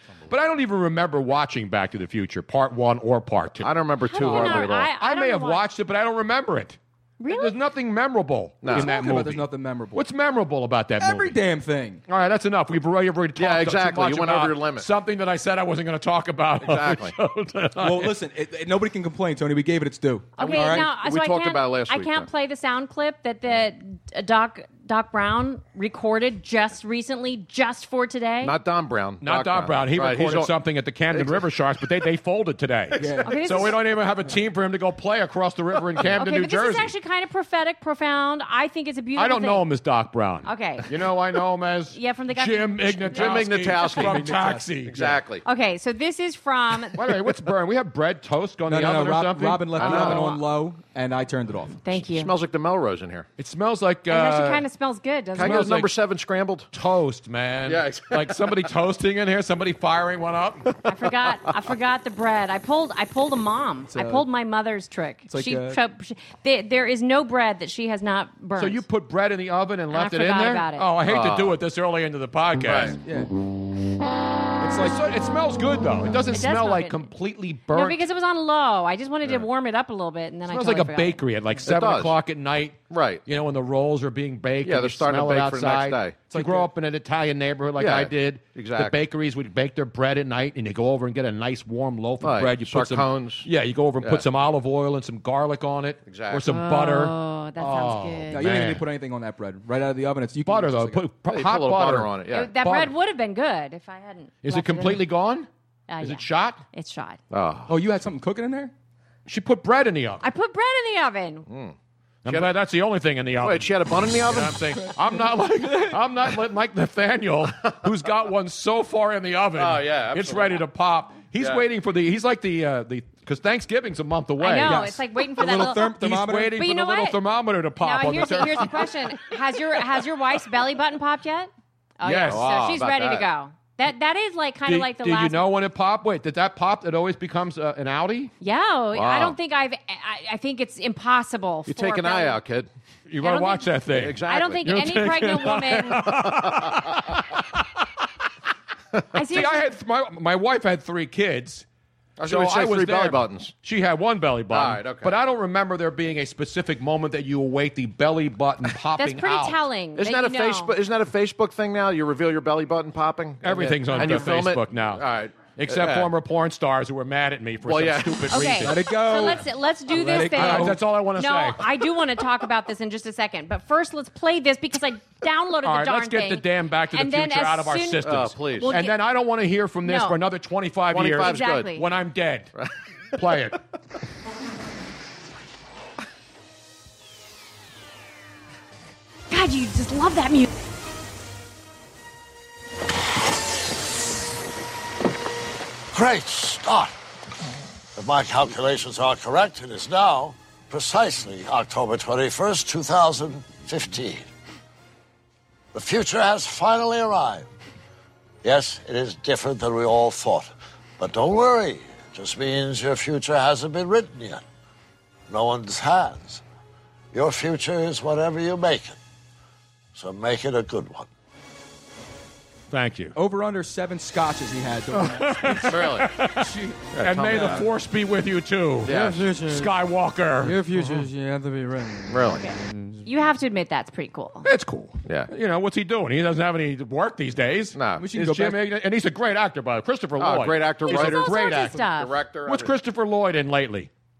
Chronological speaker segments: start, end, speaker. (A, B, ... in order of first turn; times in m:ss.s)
0:00.3-0:06.8 A
0:03.6-0:04.8 B
0:04.0-0:05.6 C
0:07.2-0:07.5 C
0:07.3-0:09.4 A
0:08.6-0:08.9 B
0:08.7-0:10.0 D
0:09.9-0:11.4 A
0:11.0-0:12.0 D
0:12.1-0:18.1 A
0:13.4-0:14.9 B
0:16.6-0:17.1 B
0:17.8-0:20.9 D
0:20.4-0:28.5 C
0:20.4-0:22.3 B
0:28.4-0:30.5 B
0:29.2-0:36.9 A
0:31.1-0:31.4 B
0:33.0-0:33.7 D
0:33.2-0:33.7 C
0:36.1-0:39.6 C
0:39.2-0:45.2 A
0:40.4-0:40.9 C
0:41.9-0:43.5 C
0:43.1-0:44.3 B
0:43.8-0:45.1 D
0:44.8-0:45.4 B
0:45.4-0:47.0 C
0:46.9-0:50.3 A
0:48.7-0:51.8 D
0:49.8-0:50.3 B
0:49.9-0:50.4 C
0:51.8-0:52.3 C
0:52.0-0:53.3 B
0:53.4-0:54.6 A
0:54.1-0:55.6 C
0:55.3-0:56.7 B
0:55.4-0:55.9 A
0:56.7-1:00.6 A
0:57.6-0:58.7 B
1:00.8-1:08.8 C
1:03.8-1:04.2 D
1:05.3-1:05.8 D
1:08.6-1:12.9 A
1:09.9-1:10.8 C
1:11.0-1:11.6 B
1:12.6-1:13.0 B
1:13.0-1:13.3 D
1:14.6-1:15.1 D
1:14.8-1:18.0 A
1:16.3-1:17.0 C
1:17.7-1:21.2 C
1:20.5-1:38.8 A
1:21.6-1:22.2 B
1:22.9-1:23.2 B
1:24.6-1:26.2 B
1:26.3-1:26.7 D
1:27.8-1:29.0 B
1:32.2-1:33.5 B
1:36.0-1:36.5 B
1:36.5-1:38.5 C
1:38.3-1:41.0 D
1:40.4-1:42.9 A
1:41.2-1:42.5 B
1:42.3-1:45.0 C
1:44.4-1:45.5 A
1:45.9-1:47.2 C
1:46.0-1:46.6 A
1:47.3-1:47.7 B
1:47.7-1:48.7 D
1:49.2-1:50.2 A
1:50.2-1:51.5 C
1:51.5-1:52.5 B
1:52.2-2:04.8 A
1:53.4-1:54.6 B
1:59.6-2:00.6 B
2:01.4-2:01.6 B
2:04.4-2:05.9 C
2:04.6-2:06.6 D
2:05.8-2:08.9 A
2:06.6-2:07.2 C
2:07.8-2:15.5 C
2:12.0-2:12.4 A
2:12.2-2:13.3 B
2:14.6-2:18.3 A
2:18.4-2:22.4 C
2:18.9-2:19.4 B
2:21.6-2:22.7 B
2:23.1-2:27.2 A
2:23.2-2:26.0 C
2:23.9-2:24.6 B
2:26.1-2:27.0 B
2:29.1-2:29.6 C
2:29.2-2:31.6 A
2:32.2-2:33.5 B
2:32.2-2:39.6 A
2:34.5-2:35.1 B
2:39.0-2:40.7 C
2:40.0-2:46.1 B
2:43.4-2:48.8 A
2:43.9-2:44.2 D
2:47.6-2:48.5 B
2:48.3-2:59.0 C
2:48.6-2:50.8 D
2:50.1-2:51.7 A
2:55.6-3:02.5 A
2:58.0-2:58.7 B
2:59.8-3:00.2 C
3:00.9-3:01.7 B
3:01.2-3:01.8 C
3:03.1-3:03.6 A
3:09.3-3:10.5 C
3:15.9-3:16.9 E
3:18.0-3:24.3 E
3:25.7-3:27.5 E
3:28.4-3:34.4 E
3:35.3-3:36.4 E
3:37.1-3:39.0 E
3:39.9-3:41.1 E
3:42.7-3:43.1 A
3:43.1-3:47.6 D
3:44.9-3:51.0 A
3:45.7-3:46.1 B
3:46.9-3:47.6 B
3:48.8-3:49.3 B
3:48.9-3:49.7 D
3:50.4-3:53.0 D
3:52.1-3:52.4 B
3:52.4-3:54.5 C
3:54.4-4:01.8 A
3:57.7-3:58.1 B
3:58.0-3:58.6 D
4:00.2-4:02.7 B
4:00.8-4:02.2 C
4:02.4-4:03.9 A